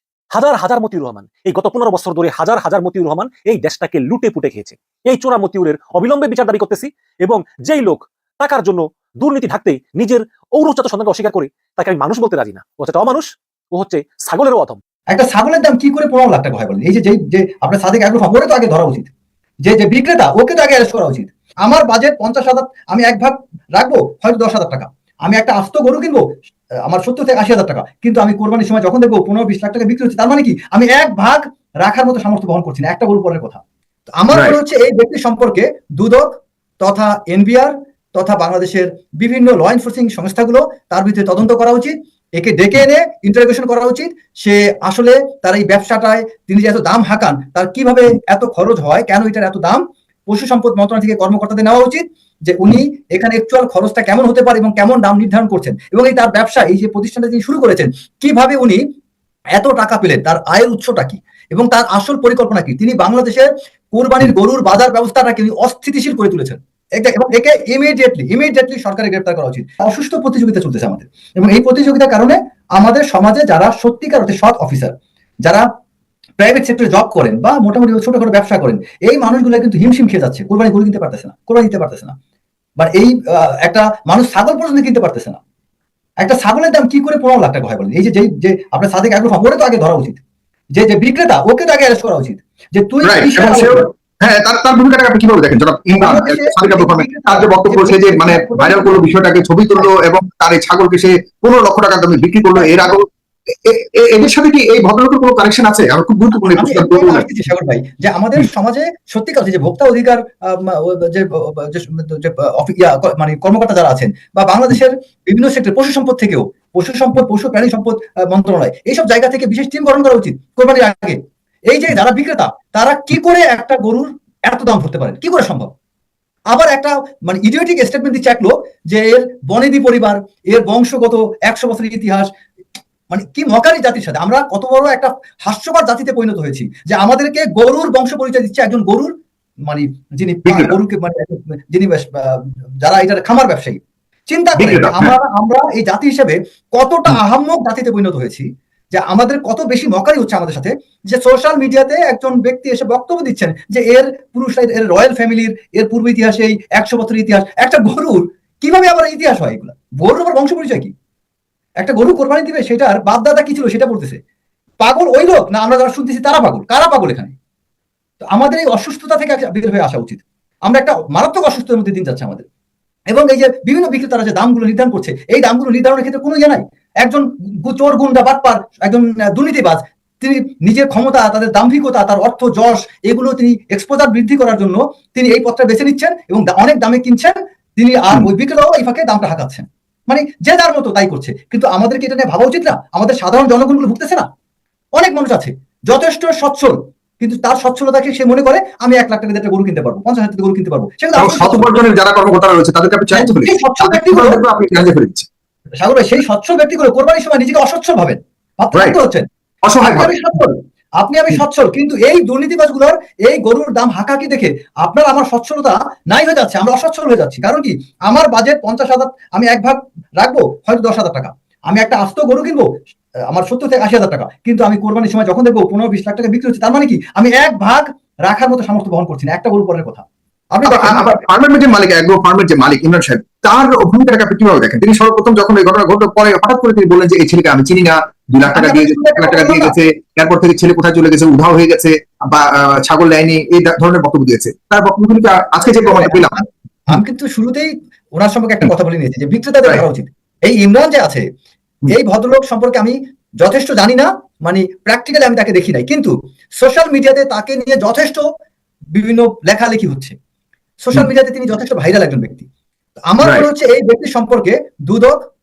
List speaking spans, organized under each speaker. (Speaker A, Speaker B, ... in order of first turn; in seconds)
Speaker A: 0.3-14.8
Speaker B: 15.1-19.1, 19.6-26.2, 26.9-33.6, 34.2-36.3, 36.8-58.8, 59.5-74.9, 76.4-82.2, 82.8-85.4, 86.2-90.2, 90.7-93.9, 96.0-99.1, 102.6-102.8, 106.5-121.2, 121.7-125.7, 126.5-132.3, 133.1-139.1, 139.7-160.9, 161.8-164.2, 164.8-167.3, 168.2-172.4, 173.1-194.3, 194.9-201.8, 203.1-204.4, 205.8-209.3, 209.8-222.7, 223.3-231.2, 238.4-239.8, 245.9-246.2, 246.9-251.3, 251.9-258.2, 258.9-260.1, 260.8-262.4, 263.1-265.2
Speaker C: 34.3-34.6, 93.0-103.1, 103.7-107.3, 140.5-140.8, 144.5-145.2, 201.2-205.3, 208.7-209.0, 209.6-210.5, 230.7-246.4, 263.2-263.5